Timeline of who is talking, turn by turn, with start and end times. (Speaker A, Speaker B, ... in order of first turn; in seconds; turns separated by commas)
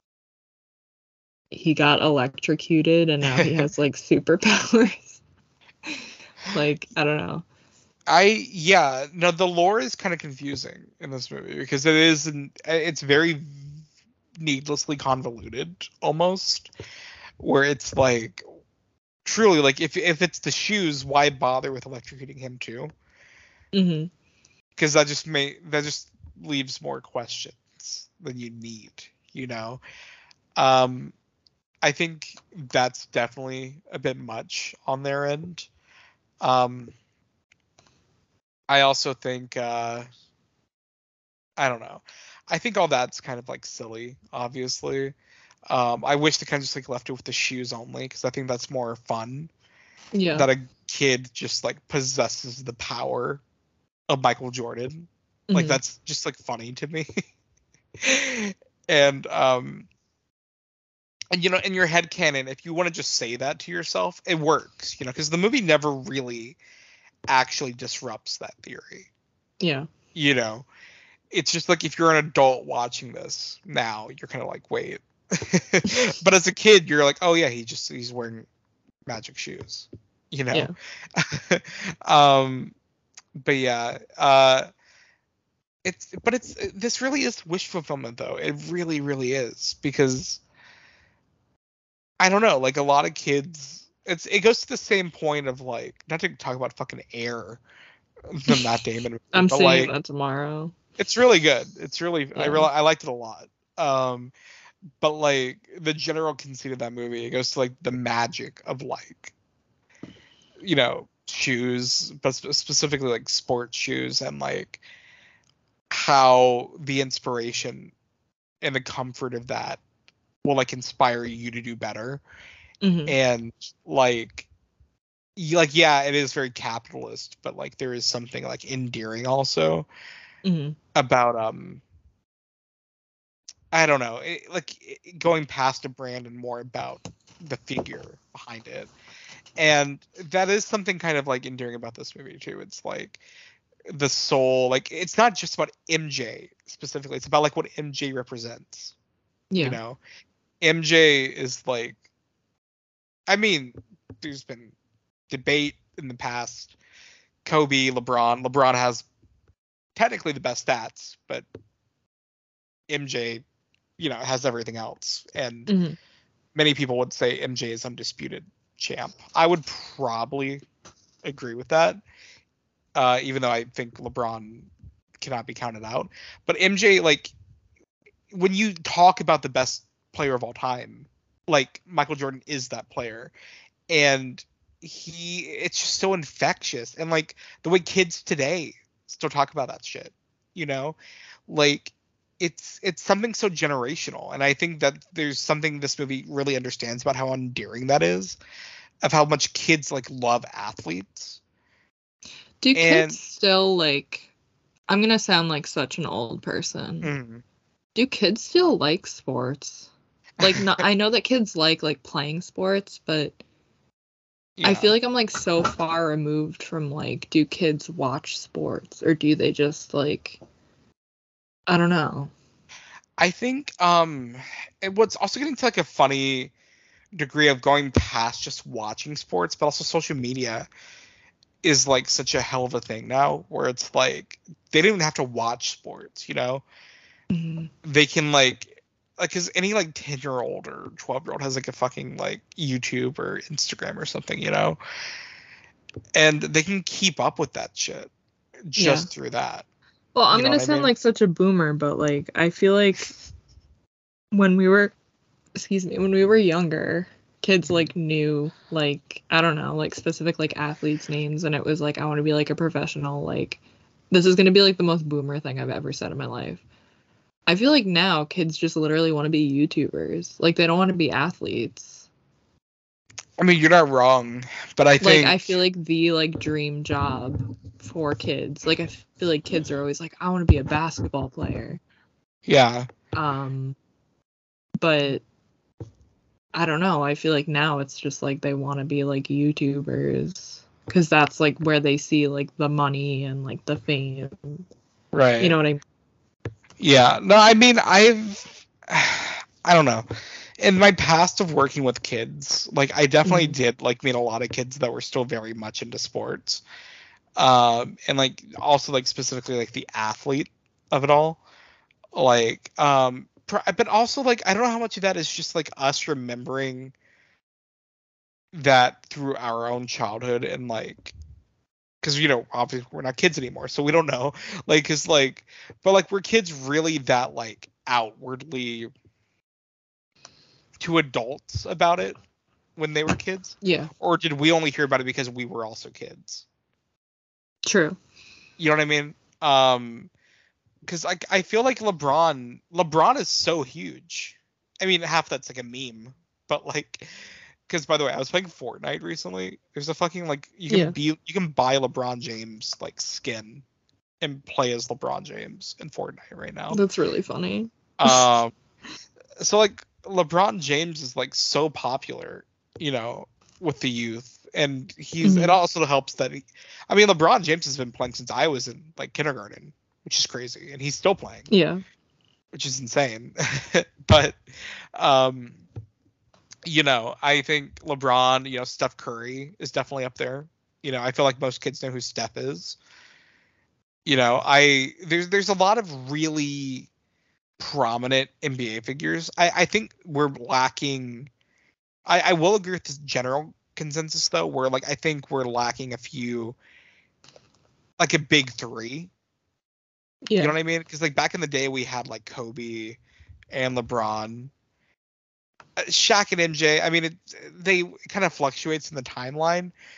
Speaker A: 1.5-5.2, Speaker B: 3.3-3.6, Speaker A: 6.5-7.5, Speaker B: 8.1-13.8, Speaker B: 14.4-16.7, Speaker B: 17.4-18.4, Speaker B: 19.2-22.9, Speaker A: 23.7-24.1, Speaker B: 24.8-29.8, Speaker B: 30.6-31.1, Speaker B: 31.8-35.7, Speaker B: 36.4-37.0, Speaker B: 38.7-40.1, Speaker B: 41.6-45.1, Speaker B: 45.7-49.5, Speaker A: 50.1-50.5, Speaker B: 50.3-53.4, Speaker B: 54.1-57.1, Speaker A: 55.5-55.8, Speaker B: 58.0-59.9, Speaker B: 61.3-66.6, Speaker B: 67.3-69.1, Speaker A: 69.6-69.9, Speaker B: 70.2-70.7, Speaker B: 71.3-78.5, Speaker B: 79.1-82.8, Speaker B: 83.4-84.7, Speaker B: 85.8-90.4, Speaker B: 92.2-97.6, Speaker B: 98.3-99.9, Speaker A: 99.3-100.8, Speaker B: 101.0-104.3, Speaker A: 102.3-102.7, Speaker B: 105.0-109.3, Speaker B: 110.6-114.8, Speaker B: 115.9-117.9, Speaker B: 118.6-119.8, Speaker B: 120.4-122.2, Speaker A: 122.8-123.2, Speaker B: 123.1-124.5, Speaker B: 125.4-129.9, Speaker A: 130.4-130.8, Speaker B: 130.9-131.8, Speaker B: 133.7-138.9, Speaker B: 139.6-143.2, Speaker B: 143.9-148.9, Speaker A: 149.5-149.8, Speaker B: 149.6-150.0, Speaker B: 150.6-152.0, Speaker B: 153.3-154.7, Speaker B: 155.3-156.8, Speaker B: 157.4-159.1, Speaker B: 160.0-161.4, Speaker B: 162.9-163.4, Speaker B: 164.0-165.7, Speaker A: 165.7-166.0, Speaker B: 166.6-170.6, Speaker B: 171.2-172.0, Speaker B: 172.9-174.7, Speaker B: 175.2-177.3, Speaker B: 178.3-183.3, Speaker B: 183.9-191.0, Speaker B: 191.5-198.4, Speaker B: 199.0-201.4, Speaker A: 202.6-204.3, Speaker B: 202.7-203.2, Speaker A: 204.9-207.1, Speaker B: 207.0-207.4, Speaker A: 207.9-213.4, Speaker B: 214.6-214.9, Speaker A: 214.6-220.4, Speaker A: 221.7-222.3, Speaker B: 223.2-226.5, Speaker B: 227.2-230.7, Speaker B: 231.6-236.7, Speaker A: 237.3-237.7, Speaker B: 237.8-244.8, Speaker B: 246.1-248.1, Speaker B: 248.7-249.7, Speaker A: 248.8-249.1, Speaker A: 250.2-253.1, Speaker B: 250.3-250.9, Speaker A: 254.3-254.9, Speaker A: 255.6-263.6, Speaker B: 257.7-257.9, Speaker A: 264.1-266.6, Speaker A: 267.5-272.1, Speaker B: 273.4-275.6, Speaker A: 275.0-281.8, Speaker B: 282.5-282.9, Speaker A: 283.1-283.8, Speaker A: 284.8-285.2, Speaker A: 286.5-294.6, Speaker B: 295.1-295.6, Speaker A: 295.4-295.8, Speaker B: 296.8-300.1, Speaker B: 300.6-306.6, Speaker A: 303.2-303.6, Speaker B: 307.4-311.4, Speaker B: 312.1-316.9, Speaker B: 318.5-321.1, Speaker B: 322.0-328.9, Speaker B: 330.8-332.2, Speaker B: 332.8-336.5, Speaker A: 333.6-333.9, Speaker A: 337.6-338.0, Speaker B: 338.6-340.1, Speaker B: 340.9-353.6, Speaker A: 350.7-350.9, Speaker B: 354.2-356.8, Speaker A: 356.7-358.2, Speaker B: 358.0-358.5, Speaker B: 359.4-371.5, Speaker A: 365.2-365.6, Speaker A: 371.5-371.8, Speaker B: 372.5-375.6, Speaker B: 376.7-382.8, Speaker B: 384.1-386.9, Speaker B: 387.6-391.3, Speaker B: 392.1-396.6, Speaker B: 398.0-399.1, Speaker A: 400.3-400.6, Speaker B: 400.4-403.0, Speaker B: 403.5-404.5, Speaker B: 405.8-409.7